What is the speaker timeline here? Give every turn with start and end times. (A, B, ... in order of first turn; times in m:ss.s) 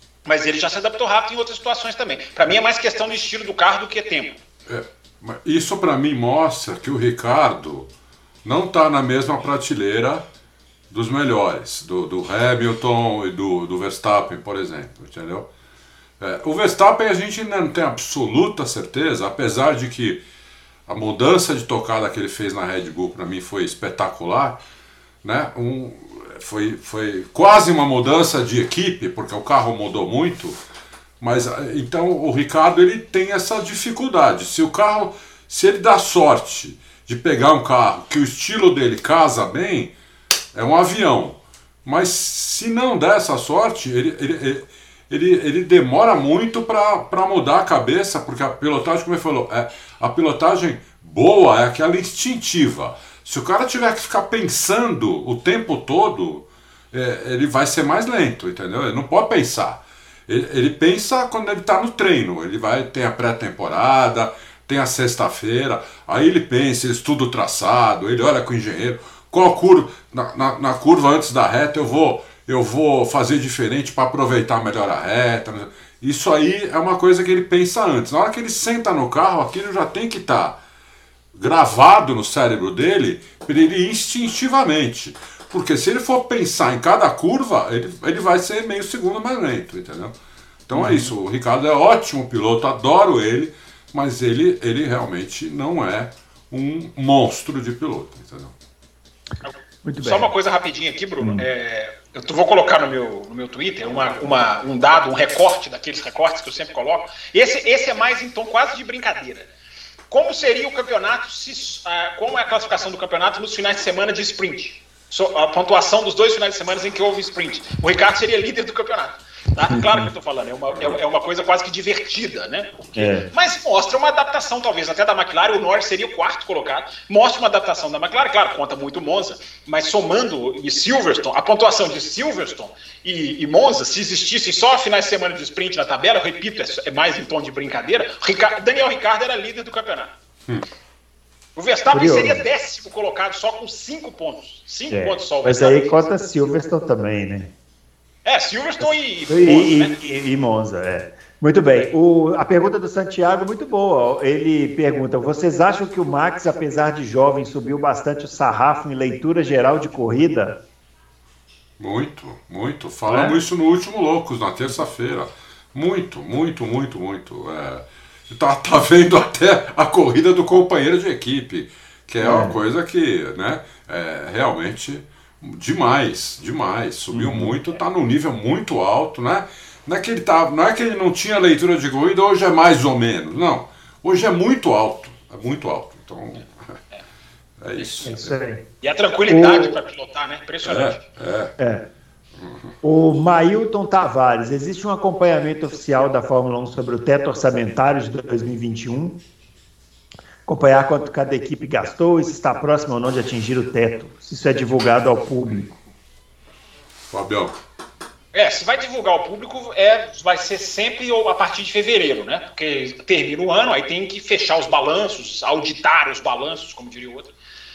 0:00.2-0:04.4 A
0:04.7-0:07.9 B
0:08.4-0:10.2 B
0:10.9-0:15.5 B
0:16.2-0:20.2 B
0:20.9-0:24.6 B
0:25.2-0:30.6 B
0:31.2-0:39.9 B
0:40.5-1:20.6 B
1:21.3-1:30.1 B
1:30.7-1:38.5 B
1:30.7-1:31.1 C
1:39.4-1:49.5 A
1:39.8-1:40.3 C
1:50.1-2:20.1 A
1:59.7-2:00.0 C
2:03.0-2:03.3 C
2:21.6-2:26.0 A
2:21.9-2:22.4 C
2:24.9-2:27.5 C
2:28.2-2:30.0 A
2:28.8-2:40.6 C
2:41.8-3:06.8 B
2:43.1-2:43.4 C
2:52.2-2:52.6 C
2:57.1-2:57.6 C
3:07.6-3:08.3 B
3:07.8-3:08.0 A
3:08.0-3:08.6 C
3:08.8-3:11.0 A
3:09.3-3:09.8 C
3:10.6-3:11.5 B
3:11.6-3:11.9 C
3:12.8-3:19.2 C
3:20.4-3:25.8 C
3:27.1-3:27.6 B
3:28.3-3:37.3 A